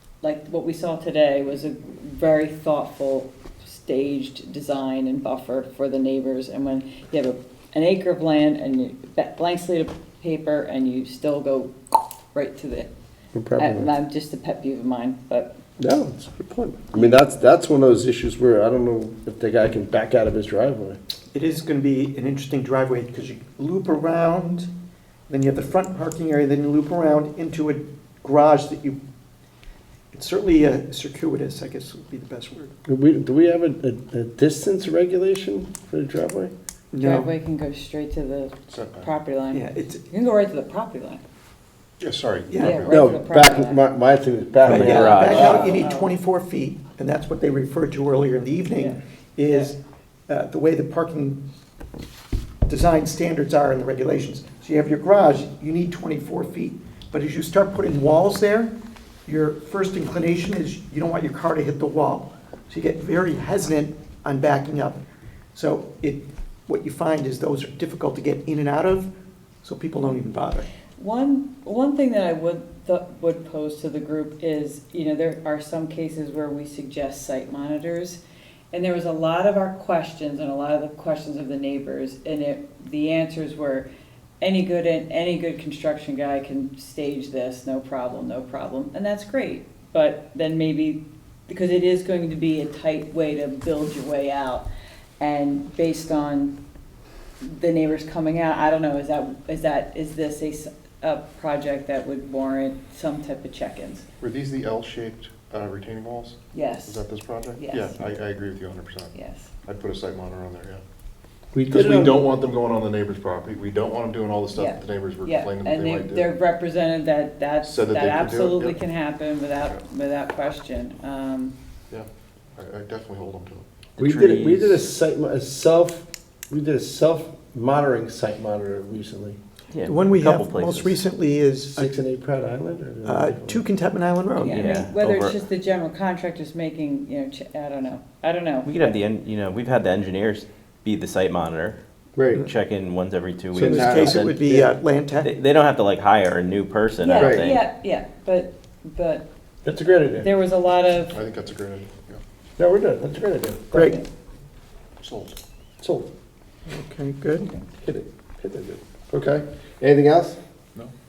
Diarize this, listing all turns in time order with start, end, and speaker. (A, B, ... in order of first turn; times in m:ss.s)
0:00.2-0:12.9 A
0:13.3-0:13.9 B
0:13.6-0:15.5 A
0:15.8-0:21.0 B
0:16.9-0:17.2 A
0:21.3-0:24.7 C
0:25.3-0:29.0 C
0:30.1-0:32.7 C
0:32.8-0:36.5 B
0:36.9-0:37.3 C
0:37.0-0:41.2 A
0:38.7-0:39.1 D
0:39.5-0:40.0 C
0:42.0-0:43.1 D
0:42.5-0:42.8 C
0:42.6-0:43.8 A
0:42.9-0:45.7 B
0:44.6-0:45.7 E
0:44.6-0:49.7 C
0:45.0-0:46.1 A
0:48.8-0:49.7 A
0:50.3-0:51.4 C
0:52.7-0:58.7 C
0:59.2-1:05.0 C
1:05.5-1:09.1 C
1:09.6-1:10.6 C
1:11.0-1:18.2 A
1:18.7-1:23.9 A
1:24.4-1:34.7 A
1:35.2-1:36.6 A
1:37.4-1:44.0 A
1:44.2-1:49.1 D
1:46.5-1:48.0 A
1:49.1-1:49.5 A
1:49.6-1:50.8 D
1:51.5-1:52.3 B
1:51.7-1:56.3 D
1:54.5-2:01.5 A
1:57.6-1:58.8 D
2:01.9-2:03.6 D
2:04.0-2:04.8 E
2:04.0-2:09.4 B
2:09.7-2:11.0 E
2:09.8-2:11.9 C
2:11.7-2:13.6 B
2:13.0-2:14.6 C
2:14.4-2:19.0 A
2:14.4-2:15.3 E
2:18.6-2:21.8 E
2:22.1-2:22.5 B
2:22.3-2:24.5 E
2:23.5-2:24.6 B
2:23.6-2:25.3 C
2:25.2-2:27.6 E
2:27.0-2:29.3 A
2:27.1-2:27.5 B
2:29.6-2:30.3 B
2:30.2-2:31.2 A
2:31.1-2:32.2 D
2:32.6-2:33.8 B
2:33.7-2:34.0 A
2:33.7-2:34.0 C
2:35.0-2:35.4 D
2:35.8-2:36.1 B
2:36.7-2:37.5 C
2:37.8-2:40.4 B